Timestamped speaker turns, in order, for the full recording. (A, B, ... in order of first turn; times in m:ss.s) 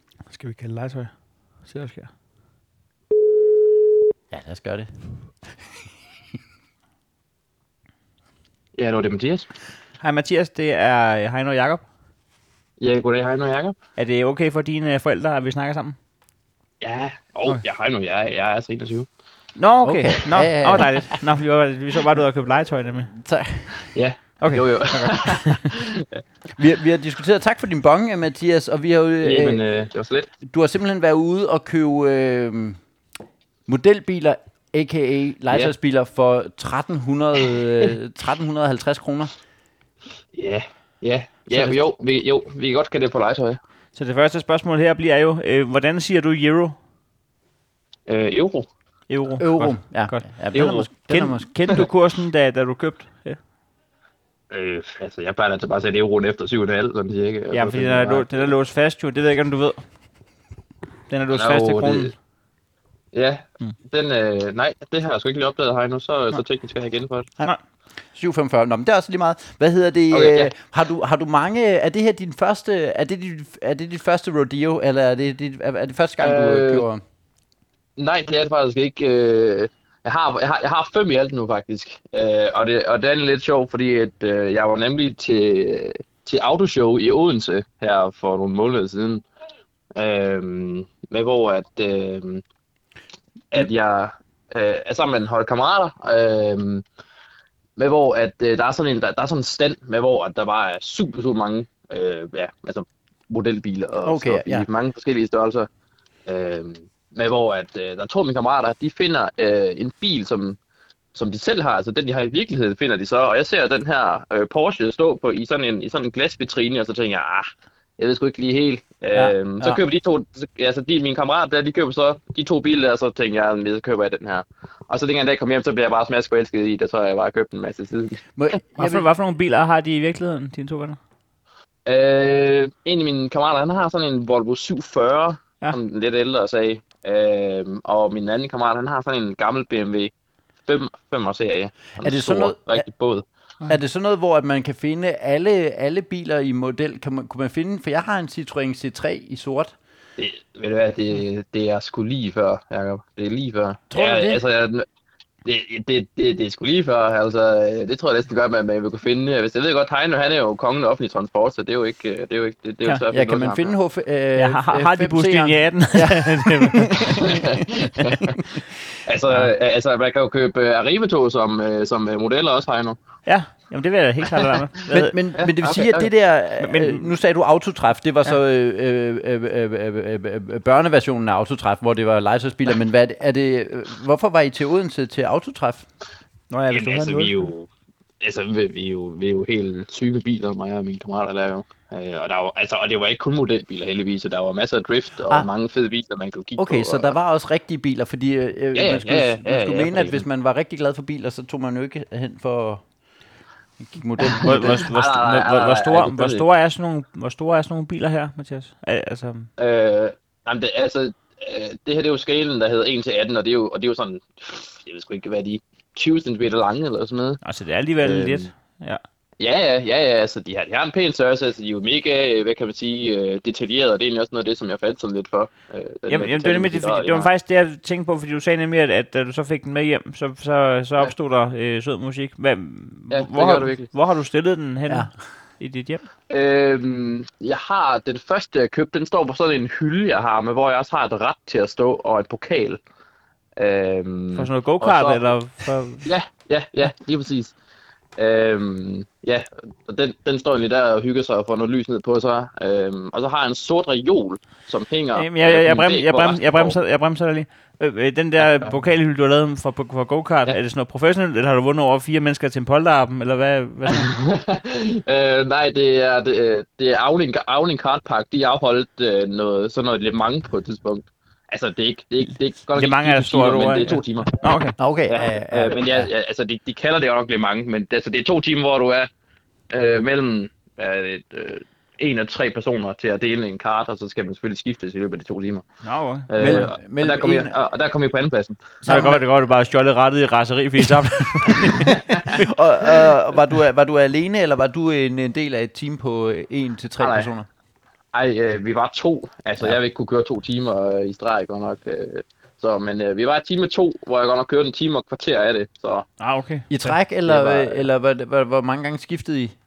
0:00.3-0:02.1 A
0:04.3-0:04.9 B
0:08.8-0:09.5 C
0:10.0-0:11.8 A
0:12.8-0:13.8 C
0:14.0-0:16.0 A
0:16.8-0:19.1 C
0:19.6-0:23.1 A
0:19.8-0:21.0 B
0:23.1-0:23.9 B
0:23.9-0:26.1 C
0:24.4-0:25.6 A
0:26.6-0:29.6 B
0:29.2-0:30.3 C
0:30.4-0:32.8 B
0:33.7-0:39.3 B
0:40.3-0:43.6 C
0:43.9-0:46.8 A
0:48.1-0:48.7 C
0:49.1-0:53.4 A
0:49.4-0:51.8 B
0:50.5-0:50.8 C
0:54.5-0:58.4 C
0:57.5-0:59.8 A
1:01.1-1:02.1 A
1:01.3-1:02.1 C
1:03.1-1:07.3 C
1:08.1-1:17.0 B
1:10.1-1:10.5 C
1:16.2-1:16.8 C
1:18.0-1:29.2 C
1:30.0-1:32.4 C
1:33.5-1:36.8 C
1:37.8-1:45.7 C
1:44.0-1:44.7 B
1:46.2-1:50.6 C
1:51.1-2:08.2 C
1:59.1-1:59.8 B
2:08.4-2:09.1 B
2:08.8-2:11.0 A
2:11.8-2:20.1 C
2:20.7-2:23.2 C
2:22.0-2:22.8 B
2:23.7-2:29.8 B
2:30.2-2:34.8 C
2:33.9-2:34.4 B
2:35.4-2:43.7 C
2:43.1-2:48.6 B
2:44.4-2:47.2 A
2:47.1-2:53.0 C
2:53.2-2:55.2 A
2:54.9-3:05.9 B
2:55.4-2:56.1 C
2:56.6-2:57.1 A
3:06.5-3:07.5 A
3:06.7-3:07.7 C
3:08.2-3:17.2 C
3:16.6-3:22.8 B
3:18.7-3:20.2 C
3:23.8-3:24.9 B
3:24.2-3:26.4 C
3:24.4-3:29.5 A
3:29.6-3:37.4 C
3:37.4-3:39.0 A
3:38.0-3:38.5 C
3:39.4-3:47.3 C
3:46.1-3:56.0 A
3:53.1-3:53.9 C
3:56.3-4:02.8 C
4:03.6-4:05.3 C
4:04.3-4:06.1 A
4:06.0-4:07.5 C
4:08.2-4:16.8 C
4:15.1-4:24.1 A
4:18.4-4:18.7 C
4:23.9-4:34.6 C
4:32.7-4:34.8 A
4:34.8-4:36.1 B
4:35.1-4:39.1 C
4:39.7-4:45.6 C
4:45.8-4:46.7 A
4:46.3-4:48.8 C
4:46.4-4:47.5 B
4:48.8-4:49.2 B
4:48.8-4:52.5 A
4:51.7-4:57.5 B
4:51.8-4:52.4 C
4:57.0-4:57.3 C
4:58.1-5:06.1 C
5:06.2-5:06.9 A
5:06.7-5:09.5 B
5:07.3-5:07.8 C